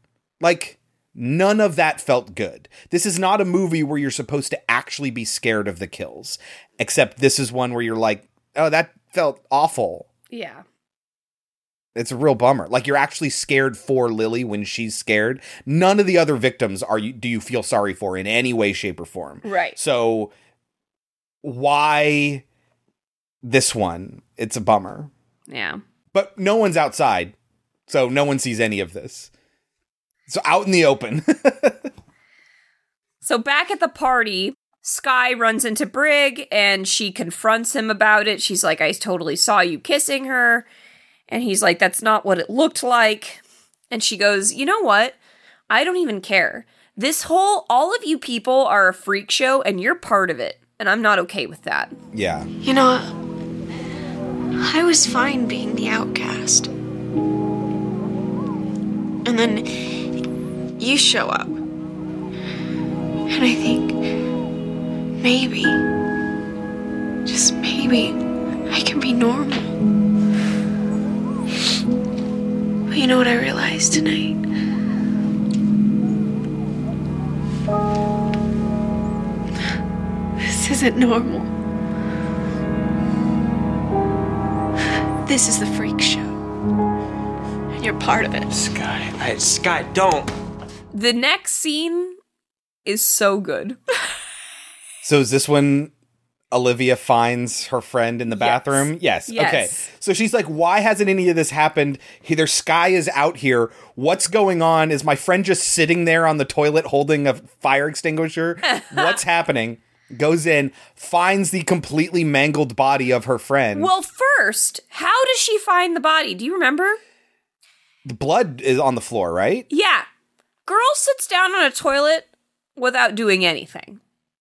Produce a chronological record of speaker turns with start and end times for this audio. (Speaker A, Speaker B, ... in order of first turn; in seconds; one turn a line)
Speaker A: 0.4-10.1
Speaker B: 10.3-10.6
Speaker A: 11.9-20.3
Speaker B: 19.4-19.8
Speaker A: 21.4-22.4
Speaker A: 23.4-25.1
Speaker B: 25.5-25.8
Speaker A: 26.1-27.3
Speaker A: 27.9-29.3
Speaker A: 30.3-31.9
Speaker B: 33.2-40.6
Speaker B: 41.3-45.1
Speaker B: 45.7-51.9
Speaker A: 52.1-52.5
Speaker C: 52.6-53.1
Speaker C: 54.6-56.7
Speaker C: 59.2-59.7
Speaker C: 60.8-61.6
Speaker C: 63.3-63.9
Speaker C: 65.2-65.8
Speaker C: 67.2-68.2
Speaker C: 68.7-69.7
Speaker C: 72.9-74.4
Speaker C: 80.4-81.5
Speaker C: 85.2-86.3
Speaker C: 87.8-88.5
Speaker B: 90.9-92.2
Speaker B: 92.8-93.8
Speaker A: 95.0-95.9
Speaker A: 96.5-113.9
Speaker B: 98.3-99.9
Speaker B: 108.7-109.2
Speaker B: 113.7-117.0
Speaker A: 118.0-119.7
Speaker B: 119.7-120.0
Speaker B: 120.7-124.0